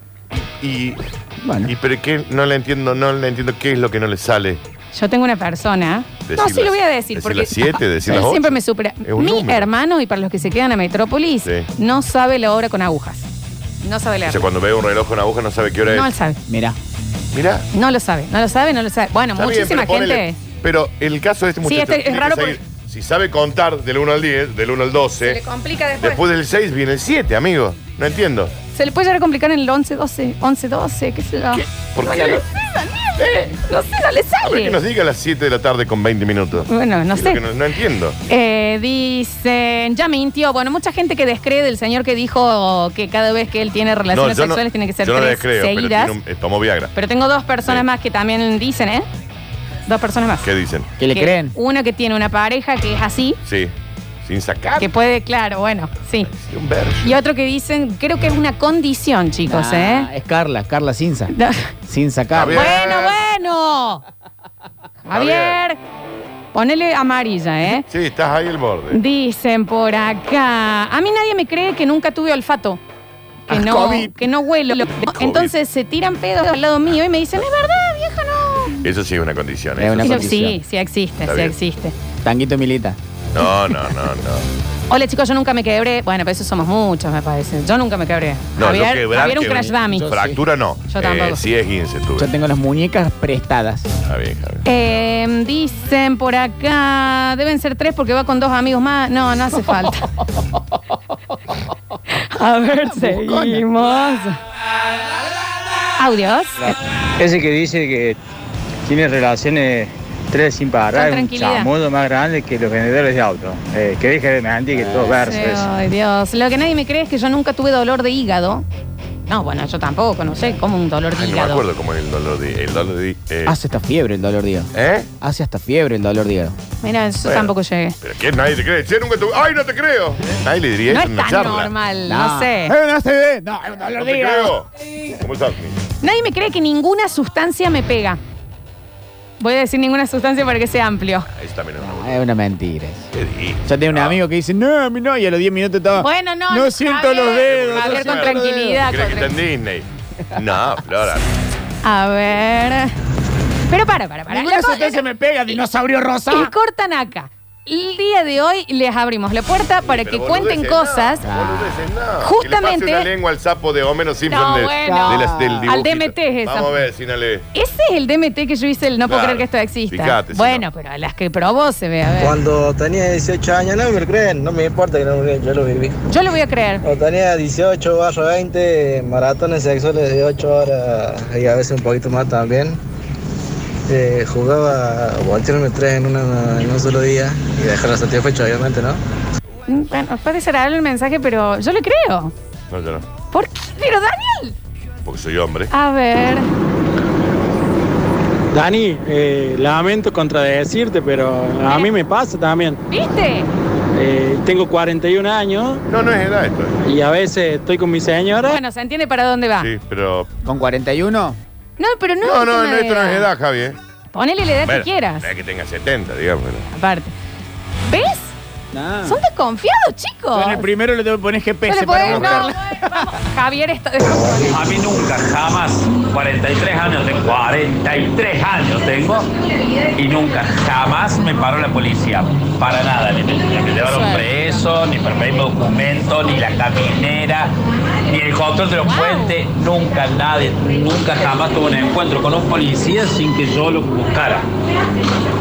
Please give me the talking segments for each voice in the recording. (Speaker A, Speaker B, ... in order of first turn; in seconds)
Speaker A: 0.6-1.0, 1.6-4.6, 6.3-9.7, 14.3-16.1, 17.3-17.7, 19.4-25.4, 26.0-28.5, 31.9-32.4, 33.2-33.5, 34.4-38.2, 44.1-46.9, 50.4-50.9, 53.5-53.7, 54.2-54.9, 56.3-57.2, 62.3-63.2, 65.1-65.6, 67.9-69.0, 75.1-75.5, 78.8-80.2, 81.2-81.5, 83.3-84.5, 88.6-92.3, 94.0-94.6, 121.1-123.5, 124.7-125.1, 127.2-131.7, 133.9-135.8, 141.3-142.2, 143.1-144.2, 147.3-151.3, 159.8-167.4, 169.1-170.7, 192.7-193.0, 195.0-195.7, 205.9-206.8, 209.6-210.3, 212.2-213.8, 214.6-216.7, 222.1-222.4
Speaker B: 1.4-1.7, 16.5-16.8, 51.0-51.5, 59.5-61.3, 61.9-62.7, 73.5-74.2, 79.8-80.6, 82.2-83.0, 89.2-90.4, 92.2-93.9, 102.8-103.7, 123.5-126.6, 132.1-134.5, 141.8-143.1, 143.6-148.8, 154.3-156.5, 161.2-161.8, 164.8-165.7, 210.4-211.4, 218.7-219.2, 220.3-223.1
Speaker C: 4.9-13.3, 13.8-14.5, 15.9-16.4, 17.7-20.4, 21.6-22.6, 25.2-26.2, 28.7-34.8, 36.7-37.4, 38.3-46.1, 46.9-49.1, 49.9-50.5, 51.1-53.4, 54.8-56.3, 57.0-60.1, 61.3-61.7, 62.5-64.0, 65.0-65.8, 66.5-67.8, 68.9-72.8, 73.5-78.8, 80.0-81.9, 84.9-90.1, 90.9-91.4, 94.6-100.1, 102.1-104.4, 106.0-106.8, 110.9-111.7, 115.2-118.6, 119.3-121.6, 126.8-128.0, 130.9-132.7, 136.0-138.2, 139.4-141.3, 146.0-149.3, 151.8-152.9, 153.7-155.6, 156.3-161.2, 162.2-163.1, 164.3-166.7, 167.5-172.4, 176.1-176.8, 189.7-192.3, 193.3-194.5, 195.7-196.5, 201.7-201.9, 202.9-203.5, 208.4-209.7, 211.8-213.3, 214.1-215.2, 216.7-217.1, 217.9-218.3, 219.1-220.7, 221.7-224.6, 233.8-234.6, 238.8-239.3
Speaker D: 107.2-108.2, 108.8-115.7
Speaker E: 172.2-176.0, 176.8-182.8, 183.9-189.0
Speaker F: 198.5-202.8, 203.9-205.8, 206.8-208.6
Speaker G: 224.5-229.3, 229.9-237.5, 238.1-244.4